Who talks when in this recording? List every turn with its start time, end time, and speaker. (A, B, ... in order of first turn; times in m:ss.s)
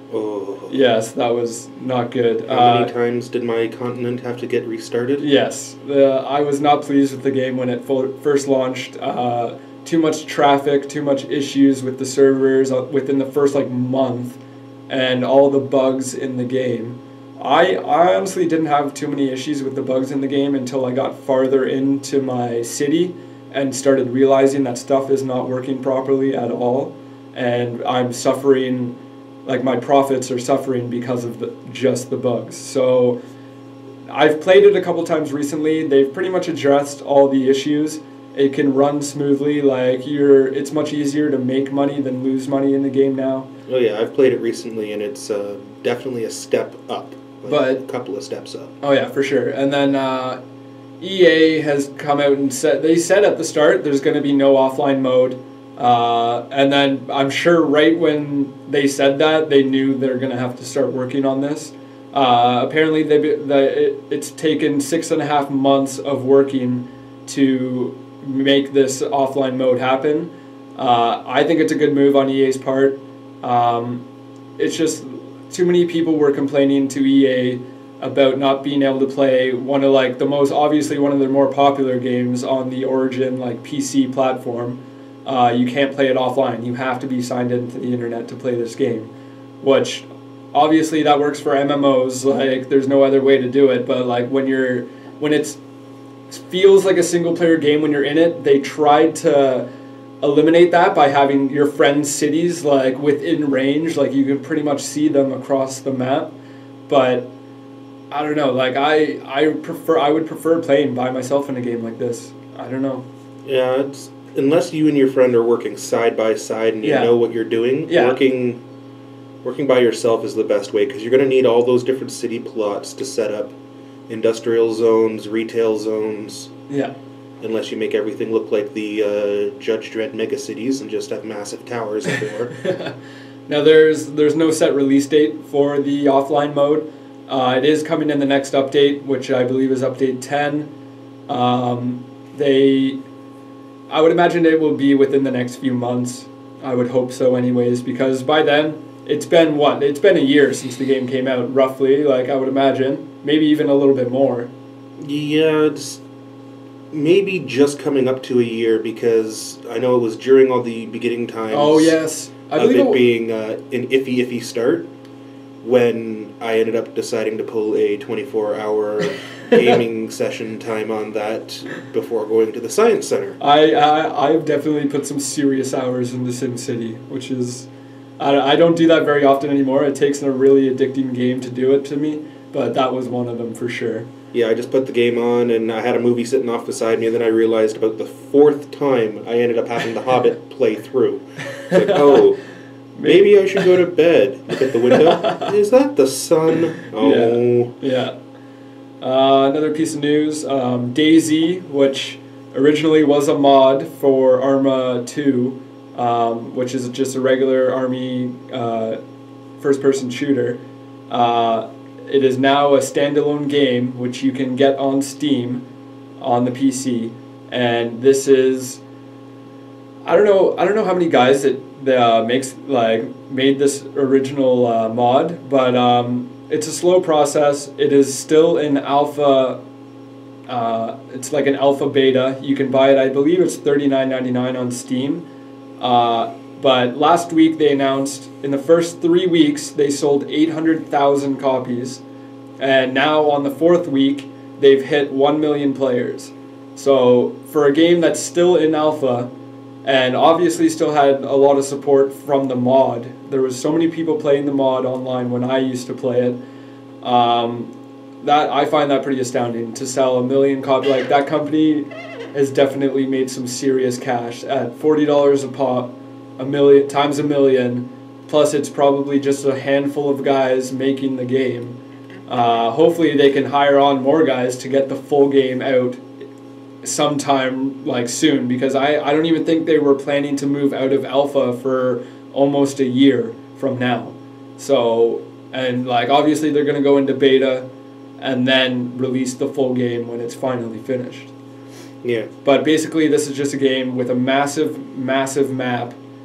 0:00.1-0:00.7 A
0:00.7-0:02.9 B
0:02.5-0:05.2 A
0:05.2-0:33.2 B
0:34.1-0:43.5 B
0:43.7-0:48.7 A
0:47.5-0:47.8 B
0:48.8-0:50.4 B
0:51.0-1:14.0 B
1:14.6-1:29.1 B
1:29.6-1:35.6 B
1:36.3-1:39.7 B
1:40.2-1:46.3 B
1:46.9-1:47.3 B
1:48.1-1:53.0 B
1:53.4-1:58.6 A
1:56.8-1:57.1 B
1:57.9-1:58.2 B
1:59.4-2:03.6 A
2:04.1-2:06.5 A
2:06.7-2:06.9 B
2:07.4-2:12.5 A
2:12.6-2:13.0 B
2:13.5-2:20.7 B
2:21.3-2:23.0 B
2:23.9-2:34.5 B
2:35.0-2:36.0 A
2:36.9-2:42.0 A
2:41.5-2:43.0 B
2:42.5-2:44.9 A
2:45.6-2:53.4 A
2:53.4-3:04.1 B
3:04.3-3:12.4 A
3:11.6-3:12.3 B
3:12.9-3:13.8 B
3:13.0-3:17.7 A
3:14.6-3:15.5 B
3:16.8-3:18.1 B
3:19.0-3:29.0 B
3:29.6-3:35.6 B
3:36.2-3:38.8 B
3:40.0-3:49.6 B
3:50.5-3:55.2 B
3:55.8-4:02.0 B
4:02.6-4:09.3 B
4:09.8-4:16.4 B
4:17.0-4:36.0 B
4:36.8-4:47.7 B
4:48.2-4:51.3 B
4:52.0-4:52.3 A
4:52.4-4:56.0 B